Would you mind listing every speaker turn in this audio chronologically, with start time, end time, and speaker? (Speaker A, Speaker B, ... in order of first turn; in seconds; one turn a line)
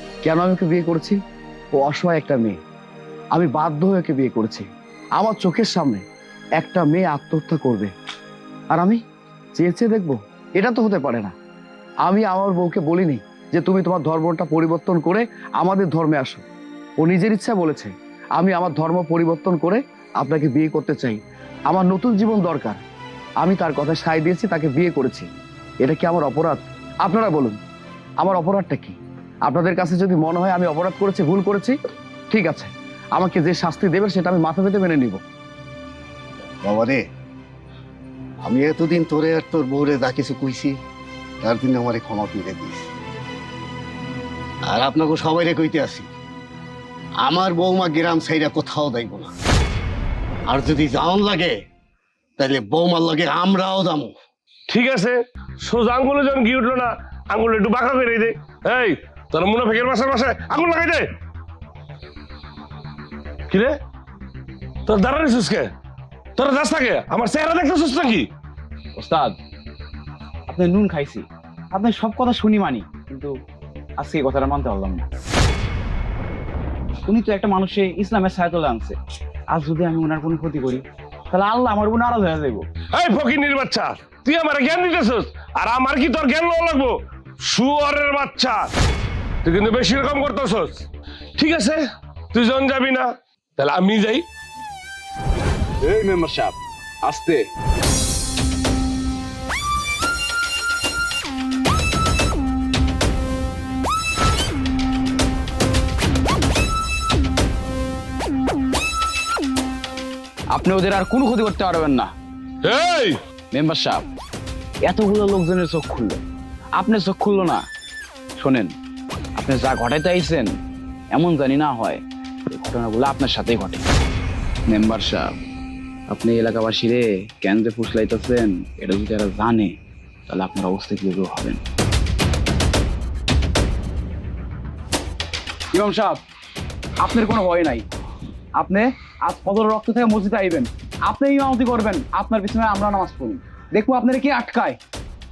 Speaker A: 0.2-1.2
Speaker A: 1.7-2.6
Speaker A: 3.3-6.0
Speaker A: 6.6-7.9
Speaker A: 8.7-9.0
Speaker A: 9.6-11.3
Speaker A: 12.0-16.4
Speaker A: 17.0-22.8
Speaker A: 23.4-25.3
Speaker A: 25.8-27.6
Speaker A: 28.2-31.8
Speaker A: 32.3-35.2
Speaker B: 36.6-37.0
Speaker B: 38.4-40.7
Speaker B: 41.4-42.9
Speaker B: 44.6-46.1
Speaker B: 47.2-49.3
Speaker B: 50.5-51.5
Speaker B: 52.4-54.1
Speaker C: 54.7-61.0
Speaker C: 63.5-63.8
Speaker C: 64.8-65.7
Speaker C: 66.4-68.3
Speaker D: 69.0-69.4
Speaker D: 70.5-73.3
Speaker D: 74.0-75.1
Speaker D: 77.0-79.0
Speaker D: 79.5-82.7
Speaker C: 82.9-88.7
Speaker C: 89.4-90.8
Speaker C: 91.4-91.8
Speaker C: 92.3-94.2
Speaker D: 95.8-97.5
Speaker D: 110.5-112.1
Speaker C: 112.6-113.2
Speaker D: 113.5-114.0
Speaker D: 114.8-116.2
Speaker D: 116.7-117.6
Speaker D: 118.4-118.7
Speaker D: 119.3-120.6
Speaker D: 121.1-123.8
Speaker D: 124.7-125.3
Speaker D: 126.1-129.8
Speaker D: 130.3-131.6
Speaker D: 135.7-136.2
Speaker D: 137.0-137.8
Speaker D: 138.6-144.8